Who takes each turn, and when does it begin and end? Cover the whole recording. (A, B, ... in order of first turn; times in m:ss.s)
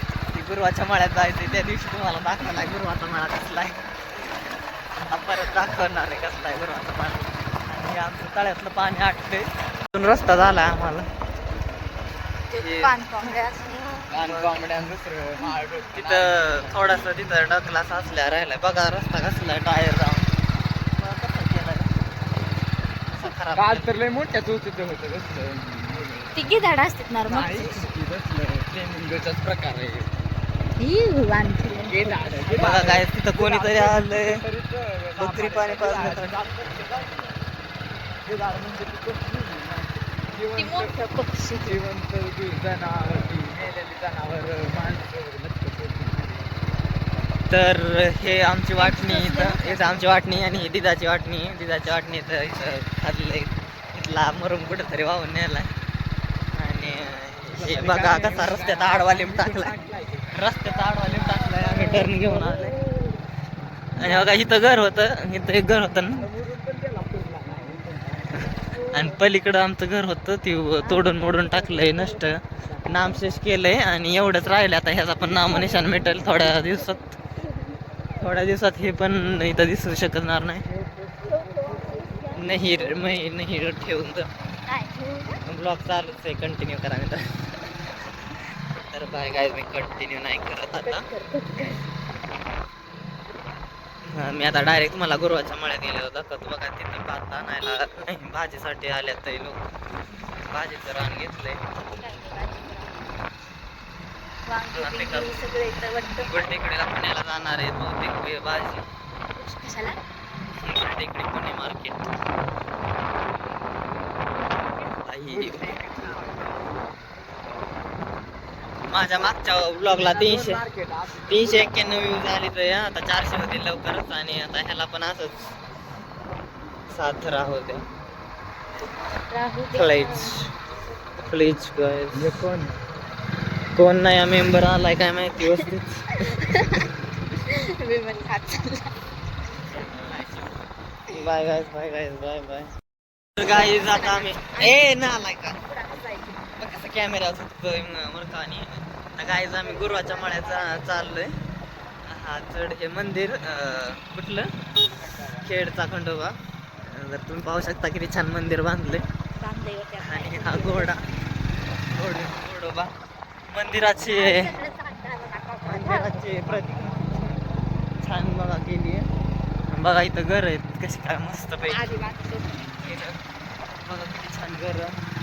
0:00.3-0:03.8 A
0:05.1-0:11.1 A
0:12.5-0:14.0 B
0:12.6-0:12.9 A
0:14.1-0:16.8 C
0:14.2-0:14.5 A
0:16.0-0:20.3 A
0:21.0-0:21.9 A
0:23.1-0:24.0 A
0:23.6-0:26.4 C
0:26.4-0:27.8 B
0:27.3-0:30.2 C
0:30.8-0:32.8 B
0:31.9-0:37.4 C
0:32.6-0:34.4 A
0:35.2-0:36.4 A
0:38.2-0:41.0 C
0:40.5-0:41.8 B
0:41.6-0:46.7 C
0:47.5-0:55.7 A
0:48.8-0:50.3 B
0:56.6-0:59.8 A
0:57.6-1:00.5 C
1:00.3-1:02.7 A
1:01.1-1:03.2 B
1:04.0-1:06.3 A
1:04.0-1:04.5 B
1:06.2-1:08.5 C
1:08.7-1:09.2 B
1:08.9-1:17.1 A
1:10.8-1:12.3 B
1:12.6-1:13.4 C
1:15.4-1:17.8 B
1:18.2-1:20.7 A
1:20.7-1:22.4 C
1:21.3-1:23.0 B
1:22.4-1:24.3 A
1:24.7-1:25.4 B
1:25.5-1:27.2 A
1:28.9-1:31.0 A
1:30.8-1:31.8 B
1:34.1-1:39.6 A
1:40.5-1:41.6 A
1:41.8-1:43.2 B
1:44.4-1:46.6 B
1:44.7-1:45.3 A
1:46.2-1:48.8 A
1:49.4-1:50.0 B
1:50.6-1:52.1 A
1:55.0-1:55.7 A
1:55.3-1:56.8 C
1:58.9-2:00.6 A
1:59.9-2:02.2 C
2:01.3-2:05.5 A
2:06.9-2:07.8 A
2:09.2-2:10.5 B
2:09.7-2:10.5 A
2:11.2-2:12.4 A
2:12.1-2:12.8 C
2:13.8-2:16.6 A
2:15.4-2:18.9 B
2:19.5-2:20.4 B
2:19.9-2:20.5 A
2:21.1-2:22.7 A
2:23.4-2:25.6 A
2:23.4-2:26.5 B
2:26.6-2:31.3 A
2:29.6-2:31.0 B
2:32.1-2:34.5 A
2:35.0-2:35.5 C
2:35.4-2:36.3 A
2:36.9-2:39.0 A
2:39.4-2:40.9 B
2:40.0-2:41.0 A
2:41.9-2:42.9 A
2:43.5-2:44.5 A
2:44.1-2:47.1 B
2:45.6-2:47.3 A
2:48.0-2:49.1 A
2:49.7-2:52.0 A
2:51.7-2:53.0 B
2:52.8-2:53.2 A
2:53.8-2:55.0 A